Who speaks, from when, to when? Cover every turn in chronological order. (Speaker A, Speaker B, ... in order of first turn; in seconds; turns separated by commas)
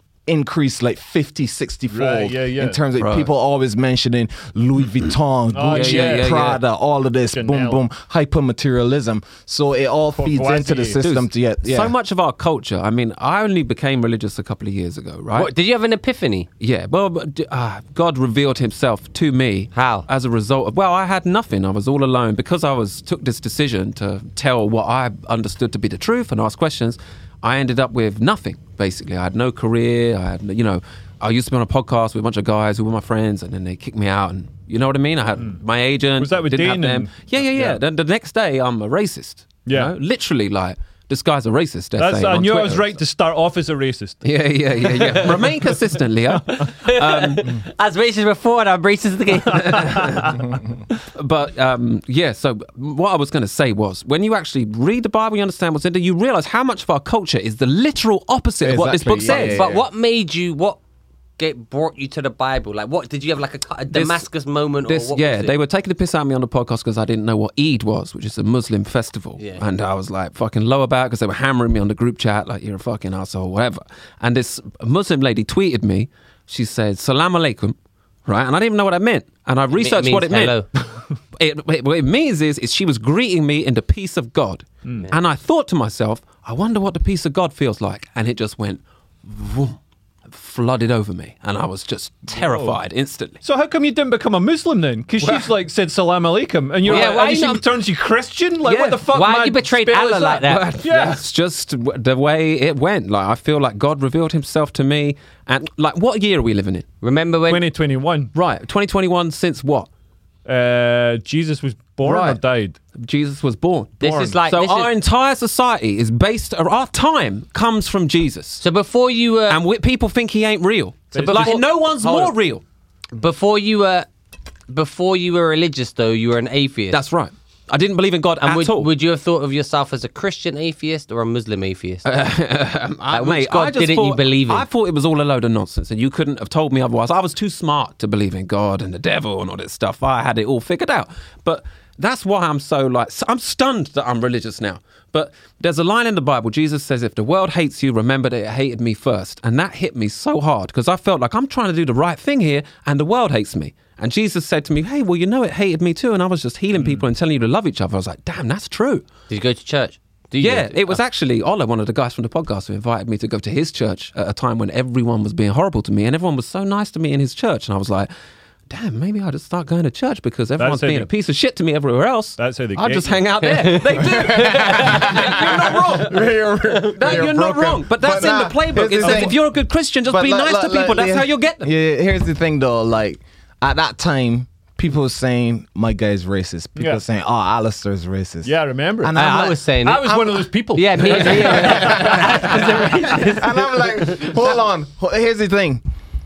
Speaker A: 0.3-11.9, Speaker B: 1.9-2.8, Speaker C: 3.0-3.3, Speaker B: 5.5-6.4, Speaker C: 5.7-6.6, Speaker B: 7.3-7.8, Speaker B: 10.1-11.0, Speaker C: 11.0-15.5, Speaker D: 15.3-16.5, Speaker C: 16.6-43.0, Speaker D: 19.7-20.1, Speaker B: 36.2-37.8, Speaker B: 39.7-39.9, Speaker B: 42.0-44.2, Speaker C: 44.2-47.6, Speaker D: 46.6-50.2, Speaker B: 49.5-50.5, Speaker C: 49.8-50.3, Speaker C: 51.1-59.7, Speaker A: 58.6-59.8, Speaker D: 59.2-60.8, Speaker D: 61.4-65.5, Speaker C: 63.9-64.2, Speaker C: 64.8-80.6, Speaker D: 79.7-80.7, Speaker C: 81.3-89.8, Speaker C: 90.3-93.4, Speaker B: 92.3-92.8, Speaker B: 93.4-101.2, Speaker C: 95.2-95.5, Speaker C: 96.8-97.2, Speaker D: 96.8-97.6, Speaker C: 98.6-99.1, Speaker D: 99.1-100.7, Speaker C: 100.4-106.9, Speaker D: 107.0-107.6, Speaker B: 107.5-108.3, Speaker C: 108.3-109.9, Speaker B: 110.5-112.8, Speaker C: 112.0-112.4, Speaker C: 112.9-118.6, Speaker D: 114.0-114.9, Speaker B: 114.0-114.4, Speaker D: 118.6-119.6, Speaker C: 119.5-122.6, Speaker B: 121.1-121.6, Speaker D: 121.2-122.3, Speaker D: 123.2-124.1, Speaker D: 124.7-127.0, Speaker C: 126.9-128.9, Speaker D: 128.4-132.2, Speaker C: 132.0-159.0, Speaker D: 133.1-134.7, Speaker B: 156.8-157.0, Speaker D: 159.3-161.0, Speaker C: 160.4-168.1, Speaker C: 168.7-176.3, Speaker B: 170.6-171.1, Speaker B: 172.4-173.2, Speaker D: 173.4-174.4, Speaker A: 173.9-179.4, Speaker D: 176.7-177.2, Speaker C: 176.9-181.7, Speaker B: 179.0-179.3, Speaker A: 180.1-189.6, Speaker B: 188.4-189.2, Speaker D: 189.1-194.3, Speaker B: 189.8-192.9, Speaker A: 191.3-192.5, Speaker A: 193.2-195.8